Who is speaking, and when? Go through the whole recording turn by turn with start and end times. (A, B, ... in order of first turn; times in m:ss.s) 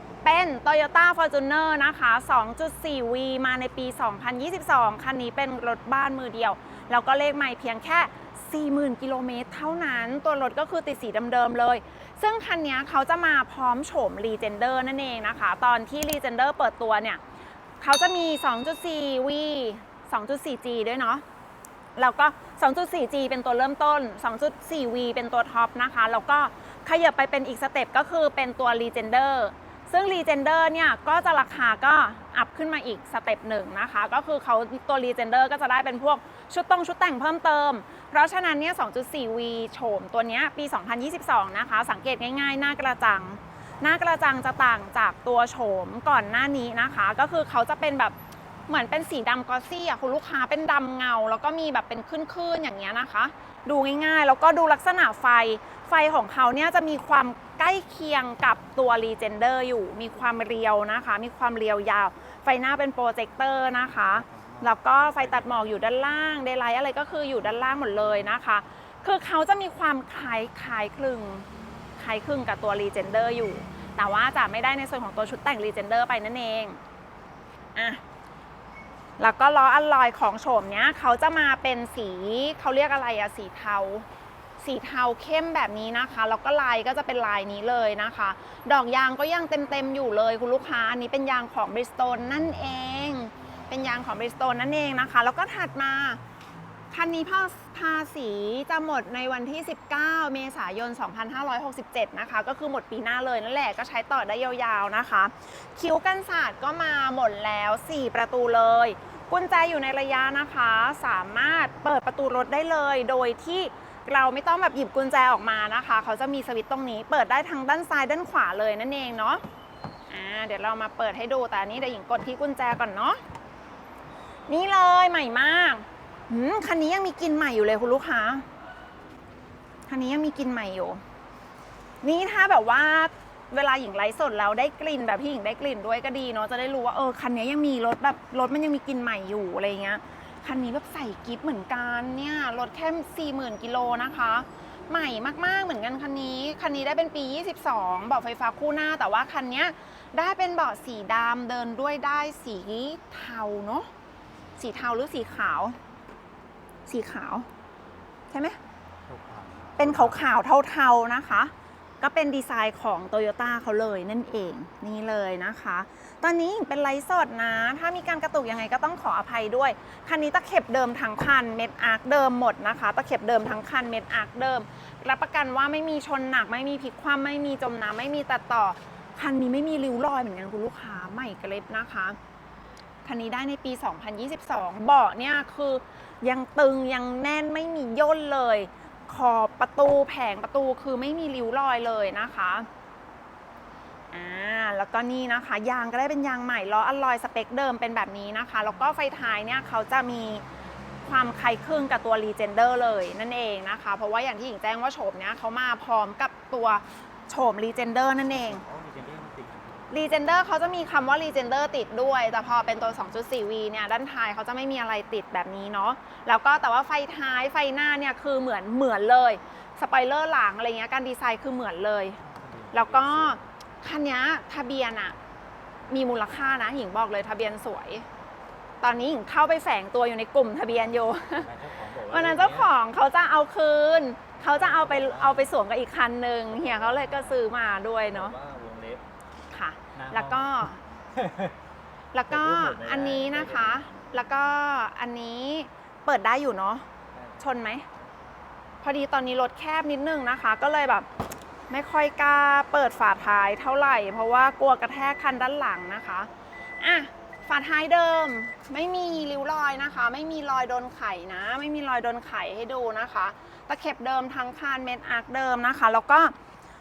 0:00.2-0:17.2 A
0:17.8-0:21.2 A
0:22.0-0:48.1 A
0:48.7-1:16.8 A
1:04.2-1:05.7 B
1:17.8-1:18.0 A
1:19.2-1:24.1 A
1:24.6-1:36.2 A
1:36.9-1:59.4 A
2:00.1-2:03.2 A
2:04.5-2:08.4 A
2:09.9-2:11.0 A
2:12.0-2:33.9 A
2:34.6-2:35.8 A
2:36.9-2:37.5 A
2:38.3-2:38.6 A
2:39.0-2:40.2 B
2:39.8-3:02.2 A
3:03.0-3:12.7 A
3:14.1-3:20.4 A
3:21.0-3:28.6 A
3:28.4-3:29.9 B
3:29.9-3:42.2 A
3:42.2-3:43.4 B
3:42.7-3:45.1 A
3:45.9-3:48.0 A
3:48.8-3:51.5 A
3:50.7-3:52.7 B
3:52.1-3:58.4 A
3:54.5-3:55.5 B
3:56.5-3:57.5 B
3:58.0-3:59.0 B
3:59.5-4:00.8 A
3:59.9-4:01.6 B
4:02.1-4:06.9 A
4:02.3-4:03.9 B
4:07.1-4:07.4 B
4:07.4-4:07.8 A
4:08.8-4:11.1 A
4:11.7-4:26.3 A